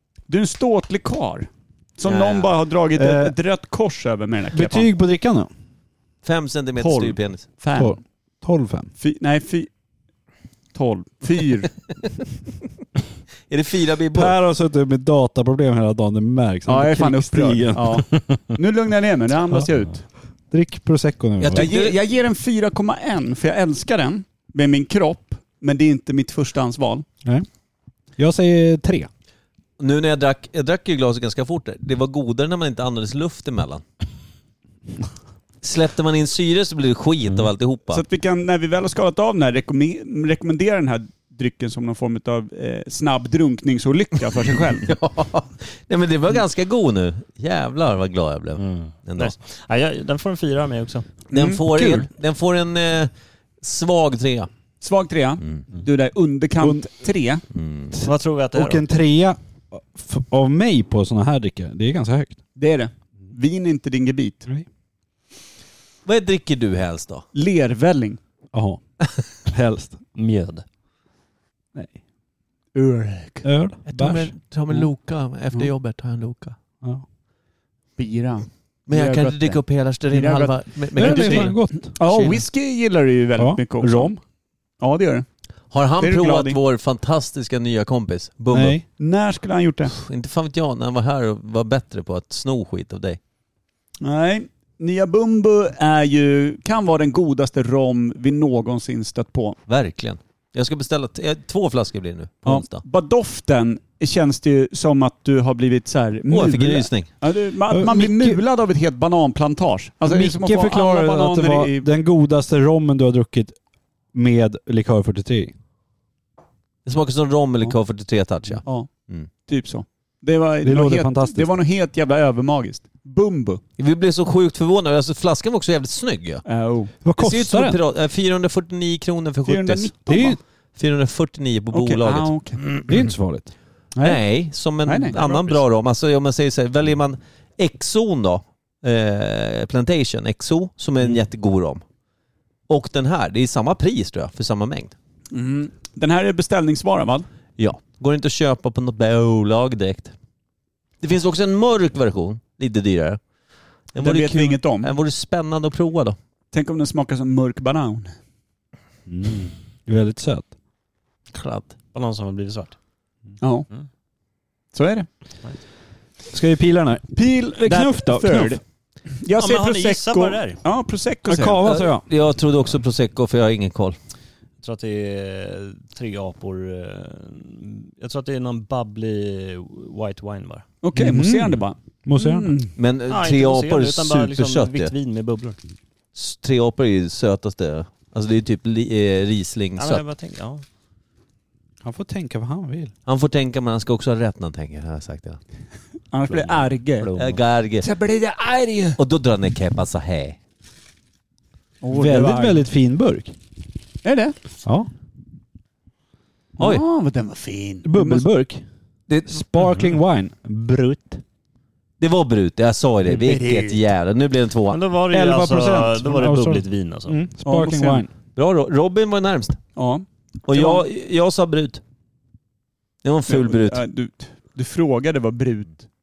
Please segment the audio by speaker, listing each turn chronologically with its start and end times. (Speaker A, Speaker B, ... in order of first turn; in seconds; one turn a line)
Speaker A: 0.3-4.9
Speaker B: 2.0-2.5
Speaker C: 2.9-3.4
Speaker C: 4.5-5.5
Speaker B: 6.2-7.5
Speaker A: 6.8-8.0
Speaker C: 7.8-8.9
Speaker A: 9.0-9.7
Speaker A: 10.7-11.7
Speaker B: 13.5-14.3
Speaker C: 14.1-18.1
Speaker A: 16.7-20.1
Speaker C: 20.5-21.7
Speaker B: 21.4-22.0
Speaker A: 21.5-27.1
Speaker C: 28.2-29.1
Speaker B: 29.8-33.8
Speaker B: 35.6-38.0
Speaker A: 37.9-44.9
Speaker B: 44.8-49.3
Speaker D: 48.6-51.1
Speaker A: 51.3-52.1
Speaker B: 51.3-54.5
Speaker A: 54.8-57.4
Speaker B: 57.5-57.9
Speaker C: 57.9-62.4
Speaker D: 58.0-58.9
Speaker A: 62.6-64.5
Speaker B: 66.1-67.3
Speaker A: 67.3-68.2
Speaker C: 68.5-68.8
Speaker C: 69.5-70.0
Speaker D: 70.2-70.7
Speaker A: 72.8-73.5
Speaker C: 73.4-74.3
Speaker B: 73.9-76.6
Speaker A: 78.0-84.2
Speaker B: 78.9-81.6
Speaker C: 81.0-82.4
Speaker C: 83.4-84.2
Speaker A: 84.8-85.3
Speaker B: 85.7-88.8
Speaker A: 86.0-86.6
Speaker C: 88.5-88.8
Speaker A: 89.0-89.9
Speaker B: 89.9-93.2
Speaker A: 94.0-99.6
Speaker B: 99.7-102.8
Speaker A: 102.5-111.9
Speaker B: 106.3-107.1
Speaker C: 107.7-108.4
Speaker C: 110.1-113.6
Speaker C: 114.1-115.5
Speaker B: 116.8-119.3
Speaker A: 119.5-123.6
Speaker C: 120.6-121.5
Speaker B: 123.8-126.5
Speaker A: 126.5-126.9
Speaker C: 127.0-127.8
Speaker B: 127.2-130.2
Speaker A: 129.5-130.4
Speaker C: 130.1-130.4
Speaker B: 130.8-132.9
Speaker A: 131.7-132.7
Speaker C: 132.9-133.5
Speaker B: 134.0-141.8
Speaker A: 134.9-135.6
Speaker B: 142.7-144.9
Speaker A: 145.3-147.3
Speaker B: 147.6-150.1
Speaker B: 151.0-153.2
Speaker B: 153.9-156.2
Speaker A: 154.0-154.9
Speaker A: 156.5-158.1
Speaker C: 159.1-160.5
Speaker B: 161.3-161.8
Speaker D: 161.9-162.8
Speaker A: 163.4-163.7
Speaker A: 164.7-165.1
Speaker C: 166.3-168.6
Speaker A: 167.1-168.6
Speaker A: 169.2-171.6
Speaker D: 169.4-170.6
Speaker C: 171.3-172.0
Speaker B: 171.6-174.0
Speaker D: 174.6-180.7
Speaker A: 180.8-182.7
Speaker C: 180.9-182.6
Speaker B: 182.8-184.9
Speaker D: 183.1-185.6
Speaker B: 186.2-190.0
Speaker D: 189.8-190.6
Speaker C: 191.8-192.9
Speaker B: 193.1-195.4
Speaker A: 196.1-197.1
Speaker D: 196.3-197.4
Speaker B: 197.2-197.9
Speaker A: 197.8-199.0
Speaker B: 199.0-200.4
Speaker A: 201.8-202.7
Speaker C: 201.9-203.3
Speaker A: 204.0-204.4
Speaker C: 204.7-204.9
Speaker A: 206.6-208.2
Speaker B: 206.6-206.8
Speaker C: 207.8-208.6
Speaker B: 209.1-209.4
Speaker C: 209.3-211.2
Speaker B: 212.0-214.8
Speaker D: 213.2-213.6
Speaker D: 214.7-217.2
Speaker C: 215.1-218.1
Speaker A: 217.4-218.0
Speaker B: 218.4-219.6
Speaker A: 219.8-220.8
Speaker B: 220.4-221.8
Speaker B: 223.0-223.8
Speaker A: 223.3-225.8